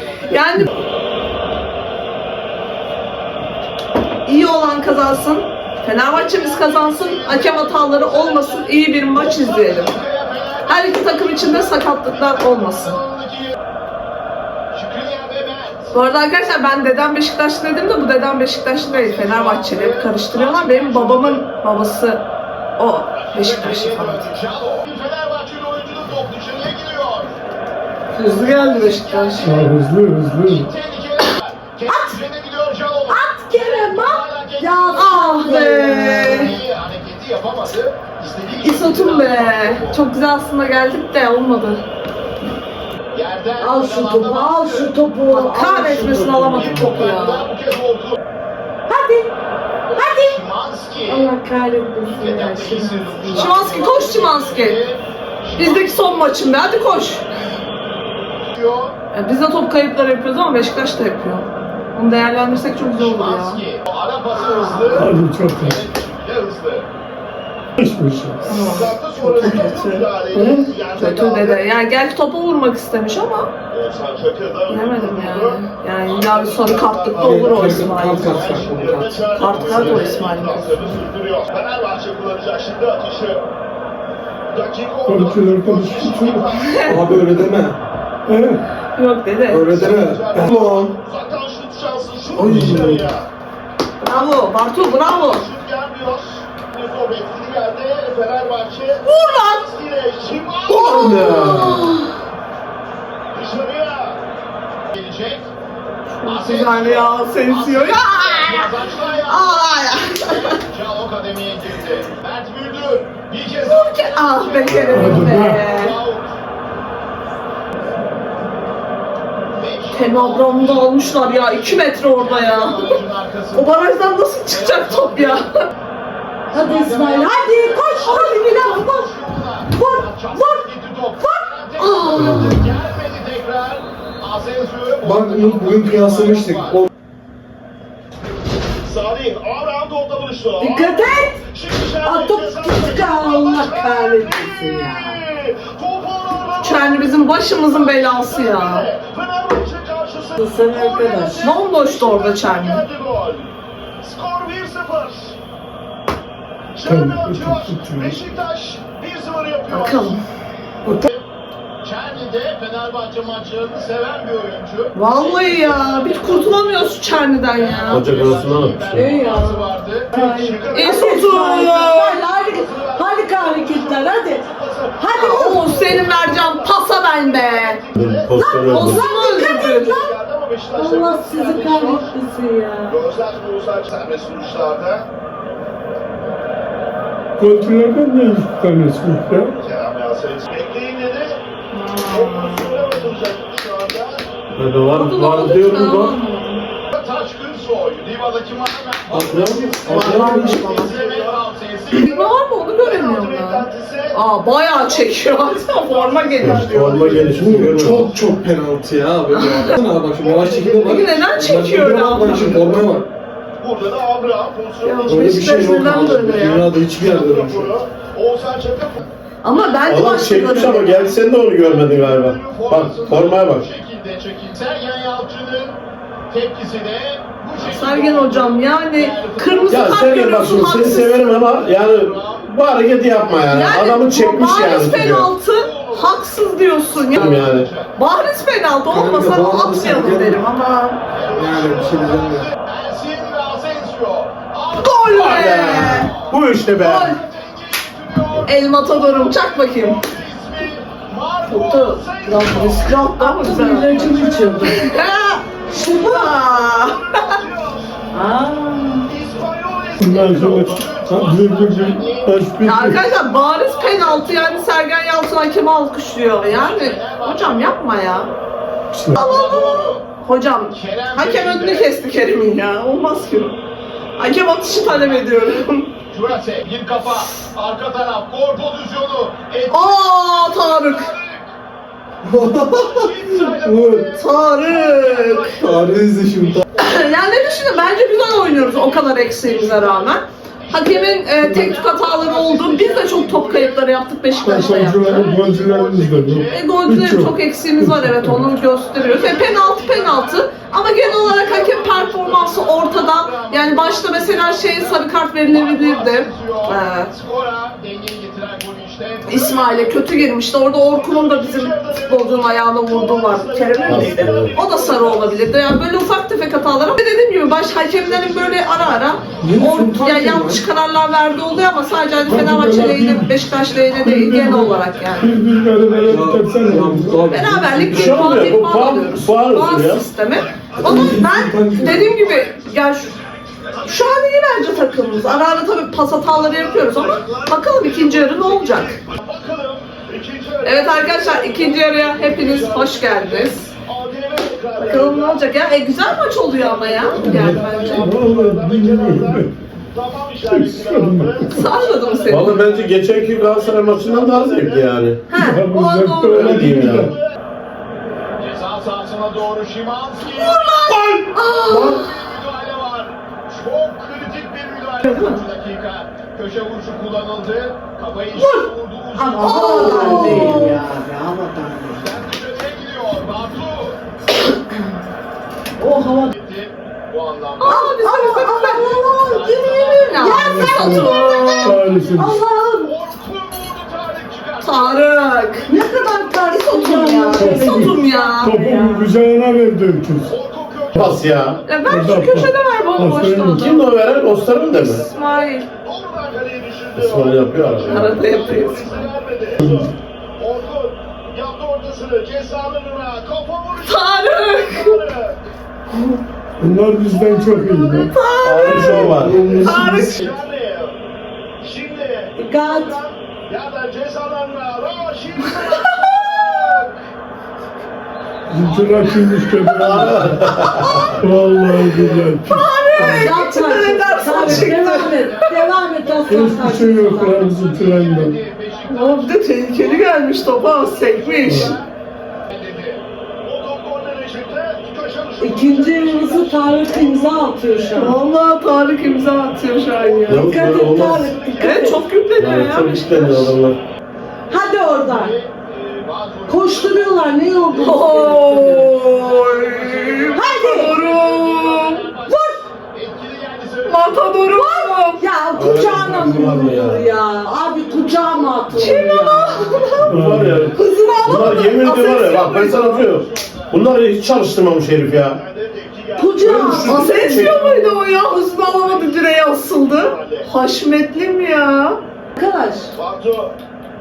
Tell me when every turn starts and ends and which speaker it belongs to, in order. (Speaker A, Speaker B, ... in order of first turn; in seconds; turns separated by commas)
Speaker A: 0.3-0.7, Speaker A: 4.2-9.9, Speaker B: 6.1-13.5, Speaker A: 10.7-13.0, Speaker B: 14.7-15.9, Speaker A: 15.9-22.2, Speaker B: 18.9-21.4, Speaker A: 22.8-24.3, Speaker B: 23.2-27.4, Speaker A: 28.1-29.5, Speaker B: 28.4-40.0, Speaker C: 29.4-30.7, Speaker D: 31.9-32.2, Speaker D: 33.1-36.6, Speaker A: 34.9-36.5, Speaker A: 38.6-41.8, Speaker B: 43.1-44.9, Speaker D: 43.6-47.1, Speaker A: 45.3-47.5, Speaker B: 46.5-48.2, Speaker D: 48.9-49.3, Speaker B: 49.9-51.3, Speaker D: 49.9-50.4, Speaker D: 51.0-53.6, Speaker B: 52.1-55.9, Speaker A: 53.3-54.8, Speaker A: 55.6-57.2, Speaker B: 58.5-59.0, Speaker A: 59.1-63.6, Speaker B: 62.9-66.9, Speaker A: 64.3-65.1, Speaker C: 64.9-65.8, Speaker C: 67.8-68.5, Speaker B: 68.4-71.7, Speaker A: 68.5-73.5, Speaker B: 73.7-83.5, Speaker A: 74.7-78.5, Speaker E: 77.1-79.5, Speaker A: 79.3-81.0, Speaker F: 79.7-80.2, Speaker B: 84.5-87.4, Speaker C: 85.0-86.6, Speaker A: 86.6-87.1, Speaker E: 86.8-87.8, Speaker C: 88.2-88.6, Speaker A: 88.9-89.7, Speaker E: 89.5-90.9, Speaker B: 89.6-93.3, Speaker E: 92.4-93.1, Speaker C: 92.4-93.0, Speaker A: 94.0-95.4, Speaker B: 94.7-101.4, Speaker A: 99.0-99.7, Speaker F: 100.7-101.9, Speaker A: 100.8-102.1, Speaker B: 103.3-104.2, Speaker B: 104.9-105.5, Speaker A: 106.1-108.7, Speaker B: 106.2-116.4, Speaker A: 109.2-110.6, Speaker A: 113.6-116.0, Speaker F: 114.7-115.2, Speaker C: 114.9-115.7, Speaker B: 119.5-123.7, Speaker A: 119.9-123.0, Speaker A: 123.5-125.5, Speaker B: 124.5-125.4, Speaker B: 126.5-136.9, Speaker D: 126.5-129.1, Speaker A: 128.0-128.6, Speaker D: 129.7-130.7, Speaker D: 131.2-131.6, Speaker A: 131.8-132.6, Speaker F: 132.1-132.6, Speaker E: 135.0-136.9, Speaker B: 138.8-153.5, Speaker D: 140.6-145.2, Speaker A: 146.6-148.9, Speaker D: 150.4-151.5, Speaker A: 151.4-152.8, Speaker B: 154.0-155.4, Speaker B: 156.7-160.2, Speaker C: 156.8-158.2, Speaker A: 159.7-160.2, Speaker B: 160.8-161.2, Speaker B: 161.8-182.1, Speaker A: 164.9-168.1, Speaker F: 167.9-169.2, Speaker D: 168.9-175.8, Speaker A: 170.7-172.2, Speaker A: 175.1-177.8, Speaker F: 177.9-179.0, Speaker D: 178.4-180.2, Speaker A: 178.7-180.0, Speaker D: 180.7-183.0, Speaker B: 182.9-185.1, Speaker C: 187.4-189.5, Speaker B: 189.5-191.4, Speaker A: 191.7-193.1, Speaker B: 192.1-194.2, Speaker F: 194.5-196.1, Speaker A: 194.9-196.7, Speaker B: 196.9-204.2, Speaker E: 199.1-200.7, Speaker A: 199.8-201.1, Speaker A: 201.9-207.1, Speaker B: 204.9-208.2, Speaker F: 206.4-208.1, Speaker E: 207.2-213.1, Speaker A: 209.3-209.8, Speaker B: 210.2-212.9, Speaker A: 210.8-212.8, Speaker B: 213.6-220.1, Speaker A: 214.8-216.7, Speaker E: 215.1-217.7, Speaker A: 219.4-221.2, Speaker F: 219.8-223.7, Speaker B: 221.3-225.8, Speaker B: 226.3-232.5, Speaker A: 227.6-231.2, Speaker F: 229.7-235.3, Speaker A: 233.5-241.0, Speaker B: 235.1-236.2, Speaker B: 236.9-238.0, Speaker F: 237.1-237.7, Speaker E: 238.9-240.4, Speaker B: 241.1-253.0, Speaker E: 241.3-242.5, Speaker A: 244.8-246.1, Speaker F: 245.1-247.2, Speaker A: 248.4-250.1, Speaker A: 251.5-257.4, Speaker D: 252.2-254.9, Speaker D: 255.7-256.3, Speaker B: 256.3-258.0, Speaker D: 258.1-259.1, Speaker B: 259.0-262.3, Speaker C: 260.0-263.0, Speaker A: 262.6-268.3, Speaker B: 263.0-264.7, Speaker B: 266.4-267.8, Speaker C: 268.9-269.2, Speaker A: 269.1-273.6, Speaker B: 269.1-270.1, Speaker B: 270.7-272.0, Speaker A: 274.2-275.9, Speaker B: 274.8-281.5, Speaker A: 279.7-281.1, Speaker E: 282.2-282.8, Speaker B: 282.7-296.7, Speaker C: 283.7-284.0, Speaker A: 284.1-285.5, Speaker E: 285.6-286.6, Speaker A: 286.8-295.3, Speaker C: 291.4-291.7, Speaker C: 294.4-298.5, Speaker A: 296.5-307.1, Speaker B: 298.9-315.6, Speaker A: 309.3-325.3, Speaker F: 313.9-314.5, Speaker B: 317.5-319.4, Speaker E: 319.4-320.6, Speaker C: 319.6-319.9, Speaker C: 322.2-323.3, Speaker C: 324.0-327.4, Speaker B: 325.9-326.6, Speaker E: 326.1-328.4, Speaker A: 327.3-333.1, Speaker F: 327.9-330.1, Speaker E: 330.8-332.1, Speaker B: 331.7-334.1, Speaker A: 333.8-339.0, Speaker B: 336.3-345.5, Speaker A: 340.6-343.7, Speaker A: 344.8-348.1, Speaker B: 346.1-355.0, Speaker C: 347.2-349.5, Speaker C: 350.4-351.7, Speaker A: 351.5-352.6, Speaker F: 352.3-355.3, Speaker A: 355.3-356.6, Speaker C: 355.3-357.1, Speaker F: 356.3-357.1, Speaker B: 356.3-357.3, Speaker B: 358.4-370.7, Speaker A: 360.2-362.1, Speaker A: 365.0-365.4, Speaker D: 369.1-372.1, Speaker A: 369.4-370.8, Speaker B: 371.9-374.0, Speaker D: 375.8-376.3, Speaker B: 376.1-381.8, Speaker A: 377.6-379.0, Speaker D: 377.7-382.9, Speaker A: 379.6-381.8, Speaker C: 380.4-382.4, Speaker B: 382.8-386.5, Speaker A: 384.6-388.6, Speaker D: 385.7-389.1, Speaker C: 387.3-390.3, Speaker B: 390.3-391.6, Speaker C: 390.9-391.2, Speaker F: 390.9-391.6, Speaker A: 391.7-393.9, Speaker C: 391.8-393.7, Speaker F: 393.5-395.0, Speaker B: 394.1-405.4, Speaker A: 394.8-395.7, Speaker F: 397.0-398.9, Speaker A: 397.8-399.0, Speaker C: 399.6-399.9, Speaker A: 403.9-404.9, Speaker C: 406.6-408.1, Speaker A: 407.1-410.3, Speaker F: 408.4-409.4, Speaker C: 408.7-409.1, Speaker E: 408.7-410.2, Speaker B: 409.2-411.0, Speaker B: 411.6-416.9, Speaker D: 412.4-413.0, Speaker A: 415.4-416.8, Speaker C: 418.5-420.4, Speaker B: 418.6-419.7, Speaker A: 419.5-425.5, Speaker F: 419.8-421.1, Speaker C: 421.2-423.3, Speaker B: 421.2-421.8, Speaker D: 423.0-427.5, Speaker B: 424.3-426.6, Speaker C: 426.3-428.4, Speaker B: 427.2-431.9, Speaker A: 428.9-431.8, Speaker C: 431.5-431.7, Speaker B: 432.5-438.2, Speaker D: 435.4-438.2, Speaker A: 437.9-440.4, Speaker B: 440.0-442.0, Speaker F: 440.3-441.3, Speaker D: 440.3-442.0, Speaker A: 441.6-443.5, Speaker F: 442.4-443.8, Speaker D: 444.5-445.3, Speaker B: 444.8-448.0, Speaker D: 446.5-448.9, Speaker A: 447.7-452.1, Speaker B: 449.0-454.4, Speaker D: 450.3-451.0, Speaker D: 452.2-452.6, Speaker A: 453.8-455.3, Speaker D: 454.6-459.9, Speaker F: 455.5-457.1, Speaker B: 457.7-460.1, Speaker A: 458.7-460.1, Speaker F: 459.9-465.4, Speaker C: 460.1-460.8, Speaker A: 460.7-463.0, Speaker B: 462.5-464.0, Speaker B: 465.2-470.5, Speaker D: 466.2-467.3, Speaker E: 466.4-466.8, Speaker F: 466.4-467.9, Speaker A: 466.8-472.0, Speaker D: 472.4-472.9, Speaker B: 472.9-473.5